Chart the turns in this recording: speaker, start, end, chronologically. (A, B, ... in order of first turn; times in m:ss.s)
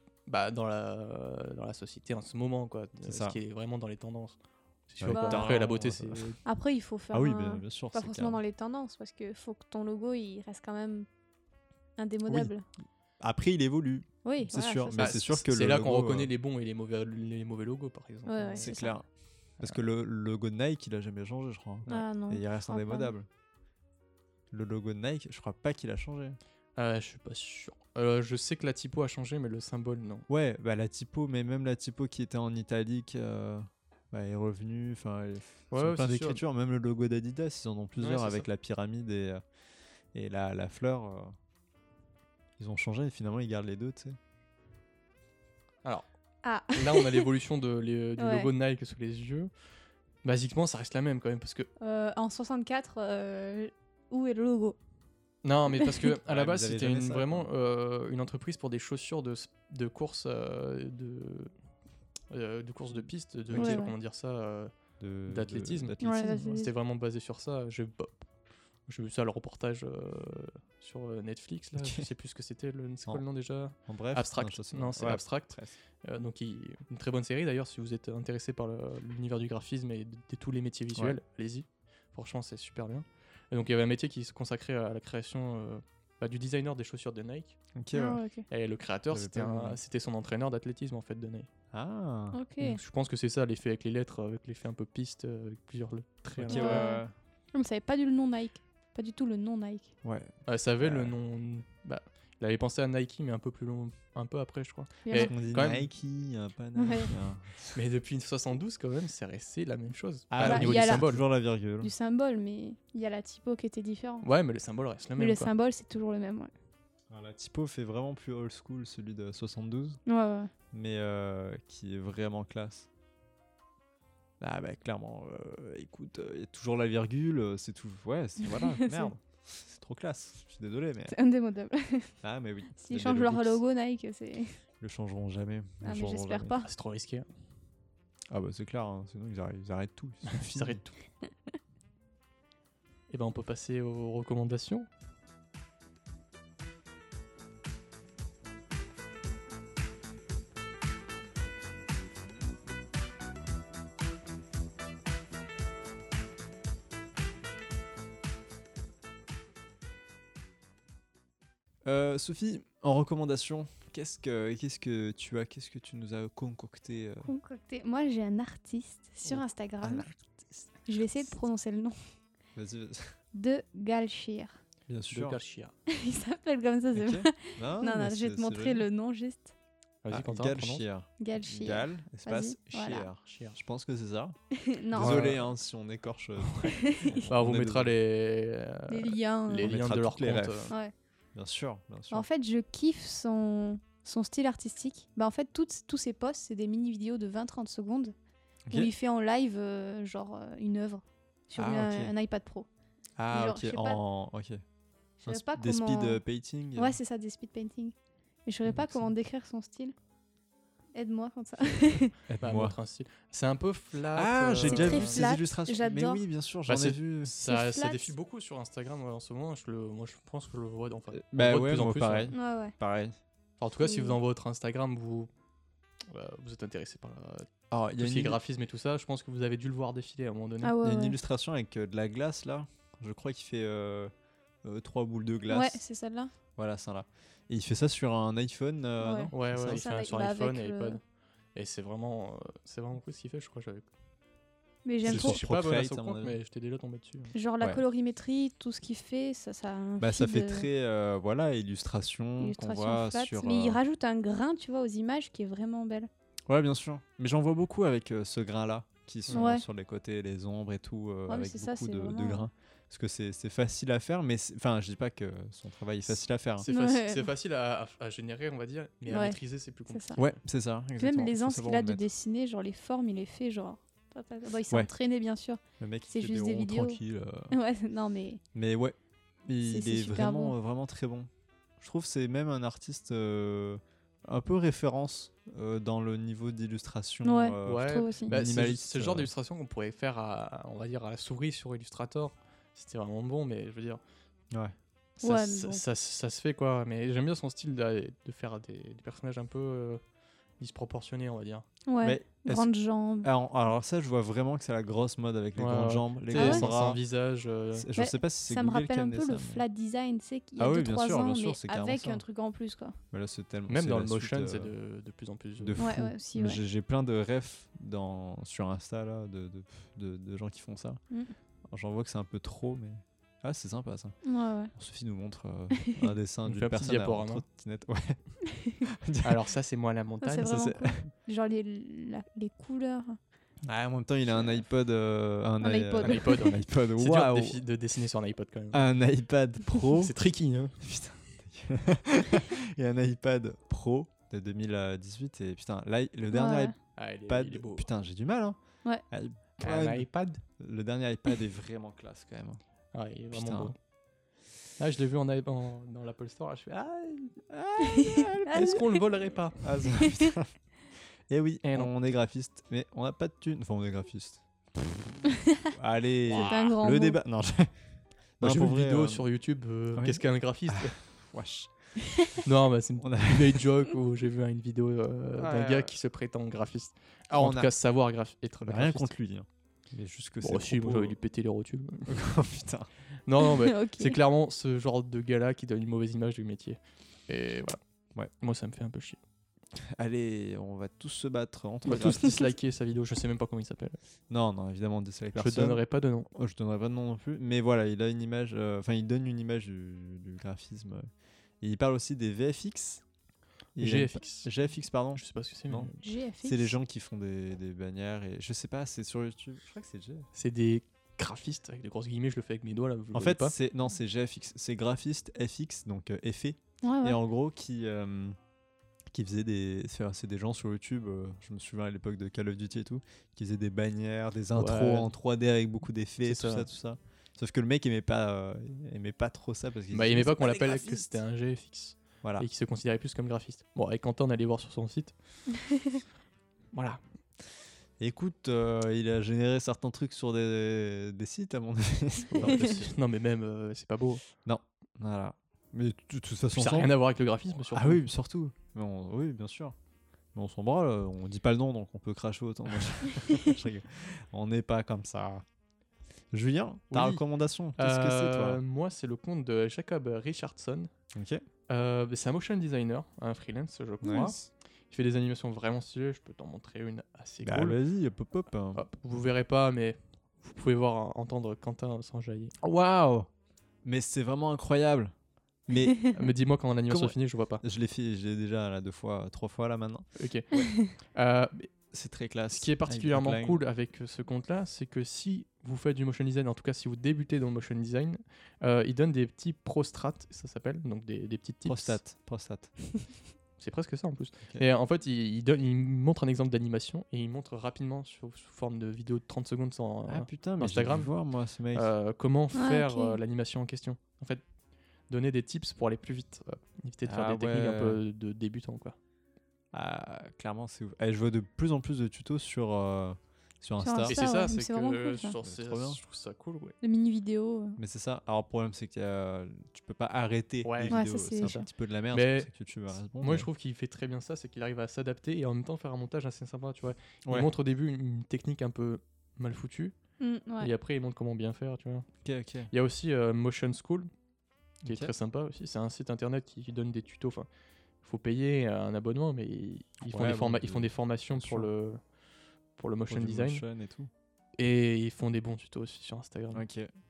0:00.3-0:04.4 A
0:03.0-0:03.4 B
0:04.9-0:06.4 A
0:05.0-0:06.3 B
0:05.1-0:05.4 C
0:06.4-0:11.1 C
0:07.1-0:08.4 B
0:12.0-0:12.6 C
0:12.3-0:12.5 B
0:13.2-0:16.3 B
0:14.2-0:15.2 C
0:15.0-0:18.7 A
0:18.3-0:19.0 C
0:18.6-0:19.1 B
0:19.6-0:23.3 B
0:21.9-0:23.1 C
0:24.5-0:26.4 B
0:26.8-0:30.3 A
0:30.3-0:39.4 B
0:35.7-0:36.4 A
0:38.0-0:38.5 A
0:40.1-0:41.3 B
0:42.6-0:44.2 B
0:46.4-0:47.3 C
0:46.7-0:49.5 A
0:48.2-0:48.5 C
0:50.2-0:51.7 A
0:51.8-0:54.8 C
0:55.4-1:01.5 A
0:56.2-0:57.5 B
1:02.3-1:04.7 A
1:03.5-1:03.8 B
1:03.6-1:03.9 C
1:05.0-1:06.6 B
1:05.3-1:08.2 A
1:06.0-1:06.7 C
1:08.9-1:27.6 A
1:11.8-1:12.1 B
1:13.9-1:15.8 B
1:27.8-1:28.2 B
1:27.9-1:28.4 C
1:28.5-1:31.5 A
1:29.1-1:29.8 B
1:31.7-1:32.4 B
1:32.3-1:32.8 C
1:32.6-1:36.9 A
1:36.4-1:37.1 B
1:36.5-1:39.9 C
1:40.0-1:41.1 B
1:40.5-1:45.9 A
1:45.1-1:45.3 C
1:45.2-1:47.8 B
1:46.8-1:47.1 C
1:47.7-1:51.2 A
1:50.3-1:51.9 B
1:50.4-1:51.1 C
1:51.8-1:54.3 C
1:54.2-1:55.5 A
1:55.2-1:56.5 C
1:57.1-2:00.0 B
2:00.1-2:00.5 C
2:00.7-2:02.9 B
2:04.4-2:11.2 B
2:08.4-2:09.1 C
2:11.1-2:12.2 C
2:12.2-2:13.6 B
2:12.8-2:14.6 C
2:14.8-2:16.6 B
2:15.8-2:16.7 C
2:16.6-2:17.3 A
2:18.3-2:20.9 B
2:20.2-2:20.9 A
2:23.1-2:24.9 A
2:41.8-2:47.3 B
2:47.3-2:50.1 C
2:49.3-2:50.7 B
2:50.8-2:52.0 C
2:52.6-2:53.2 B
2:53.3-2:54.6 C
2:54.9-2:55.4 B
2:55.1-2:55.7 A
2:55.9-2:59.5 C
2:56.9-2:58.9 B
3:00.0-3:00.8 A
3:00.1-3:04.4 B
3:01.2-3:03.1 C
3:03.3-3:03.6 A
3:04.6-3:05.3 C
3:04.9-3:07.9 B
3:05.0-3:05.5 A
3:06.6-3:07.3 C
3:07.3-3:10.7 A
3:08.9-3:09.7 C
3:09.6-3:10.7 B
3:11.3-3:12.3 B
3:12.1-3:18.1 C
3:18.7-3:22.7 C
3:21.6-3:22.1 B
3:23.2-3:24.6 B
3:23.3-3:24.0 C
3:25.2-3:26.2 C
3:25.2-3:27.0 B
3:26.8-3:30.0 C
3:28.7-3:29.1 B
3:30.9-3:32.1 C
3:32.3-3:32.8 B
3:32.4-3:35.3 A
3:34.2-3:37.3 B
3:34.6-3:36.2 C
3:36.7-3:42.3 A
3:37.4-3:38.1 C
3:41.1-3:43.2 B
3:42.3-3:42.8 C
3:43.6-3:45.3 A
3:43.8-3:44.2 C
3:46.1-3:50.7 A
3:47.7-3:48.4 B
3:50.6-3:51.2 C
3:50.8-3:54.1 B
3:54.6-3:55.8 B
3:55.5-3:56.3 C
3:56.6-3:59.8 B
3:59.0-4:01.0 C
3:59.3-4:01.0 A
4:01.6-4:03.9 A
4:04.8-4:05.4 C
4:05.0-4:07.3 A
4:05.0-4:06.4 B
4:07.3-4:10.7 C
4:10.0-4:13.8 B
4:12.4-4:16.1 C
4:16.5-4:26.7 B
4:19.3-4:19.6 C
4:21.3-4:22.5 C
4:26.6-4:30.4 A
4:26.7-4:27.3 C
4:29.1-4:30.2 C
4:30.2-4:32.0 B
4:31.0-4:37.0 C
4:35.8-4:37.5 B
4:37.5-4:38.4 C
4:38.6-4:41.3 B
4:39.6-4:40.6 C
4:41.8-4:49.3 B
4:47.2-4:48.3 C
4:47.6-4:54.0 A
4:55.2-5:00.0 A
4:55.2-4:55.8 C
5:00.6-5:01.7 A
5:01.9-5:03.3 C
5:02.0-5:02.7 B
5:03.2-5:07.0 B
5:05.6-5:07.9 A
5:06.4-5:06.7 C
5:07.8-5:09.6 B
5:08.0-5:13.0 C
5:10.6-5:12.2 B
5:13.1-5:14.7 B
5:13.7-5:15.8 A
5:15.6-5:21.0 B
5:15.8-5:16.6 C
5:21.7-5:24.2 B
5:24.2-5:24.7 C
5:24.8-5:28.2 B
5:25.8-5:26.1 C
5:26.4-5:27.4 A
5:28.8-5:29.4 B
5:29.2-5:30.5 A
5:30.2-5:33.2 C
5:30.4-5:31.1 B
5:33.6-5:37.6 B
5:35.6-5:36.5 C
5:36.0-5:38.9 A
5:38.7-5:40.1 B
5:40.0-5:40.8 A
5:40.8-5:48.6 B
5:46.3-5:46.8 C
5:47.0-5:47.9 A
5:49.1-5:50.1 B
5:49.6-5:50.4 A
5:50.6-5:52.6 B
5:52.9-5:53.8 A
5:53.3-5:53.7 B
5:54.8-5:57.4 A
5:57.5-5:59.0 B
5:57.8-5:58.8 C
5:58.5-5:59.8 A
5:59.6-6:00.6 B
5:59.9-6:00.3 C
6:01.3-6:05.2 B
6:01.6-6:01.9 A
6:05.7-6:07.7 B
6:06.3-6:07.2 C
6:08.4-6:09.2 B
6:08.4-6:11.0 A
6:10.0-6:12.4 B
6:12.0-6:12.3 C
6:12.4-6:19.1 A
6:13.0-6:13.7 B
6:15.4-6:15.9 B
6:17.3-6:17.7 B
6:18.6-6:21.2 B
6:20.4-6:22.2 A
6:22.1-6:22.9 B
6:23.3-6:27.8 A
6:23.6-6:24.2 C
6:28.4-6:29.2 A
6:29.8-6:32.4 B
6:31.9-6:34.0 A
6:34.3-6:35.8 B
6:35.4-6:36.3 A
6:36.3-6:41.1 B
6:41.6-6:43.0 B
6:43.8-6:45.9 B
6:43.8-6:44.5 A
6:45.2-6:46.0 A
6:46.0-6:46.8 C
6:46.4-6:50.3 B
6:50.3-6:53.6 A
6:53.1-6:58.4 B
6:56.8-6:57.2 C
6:59.1-7:11.2 B
7:04.6-7:05.1 A
7:06.2-7:06.7 A
7:09.9-7:15.2 A
7:16.7-7:17.0 A
7:18.0-7:22.8 B
7:22.3-7:24.2 A
7:24.4-7:26.9 B
7:26.5-7:28.0 A
7:27.7-7:29.8 B
7:30.3-7:35.4 B
7:36.3-7:38.6 B
7:36.9-7:37.2 A
7:37.8-7:40.9 A
7:41.2-7:41.4 B
7:41.7-7:47.8 A
7:44.0-7:44.4 B
7:47.4-7:48.8 B
7:48.8-7:52.5 A
7:52.6-7:53.3 B
7:53.8-7:55.1 B
7:55.7-7:56.3 B
7:56.1-7:57.6 A
7:56.9-8:00.1 B
8:00.2-8:01.7 A
8:01.9-8:03.6 B
8:02.5-8:12.0 A
8:11.7-8:12.8 B
8:13.6-8:21.1 A
8:20.1-8:21.9 B
8:21.7-8:24.4 A
8:22.5-8:23.2 C
8:25.1-8:29.0 A
8:27.0-8:28.0 B
8:29.7-8:34.2 B
8:33.8-8:35.4 C
8:34.1-8:36.8 A
8:35.4-8:36.0 B
8:36.8-8:37.8 C
8:37.8-8:43.5 B
8:40.6-8:50.0 A
8:40.9-8:41.6 C
8:47.3-8:47.5 B
8:50.2-8:50.7 C
8:50.6-8:52.1 A
8:52.2-8:52.7 B
8:52.7-8:54.1 A
8:54.8-8:55.1 B
8:54.8-8:57.5 A
8:58.0-9:02.0 A
9:00.0-9:01.7 B
9:02.8-9:03.6 A
9:03.1-9:04.1 B
9:04.6-9:06.6 A
9:06.5-9:06.9 B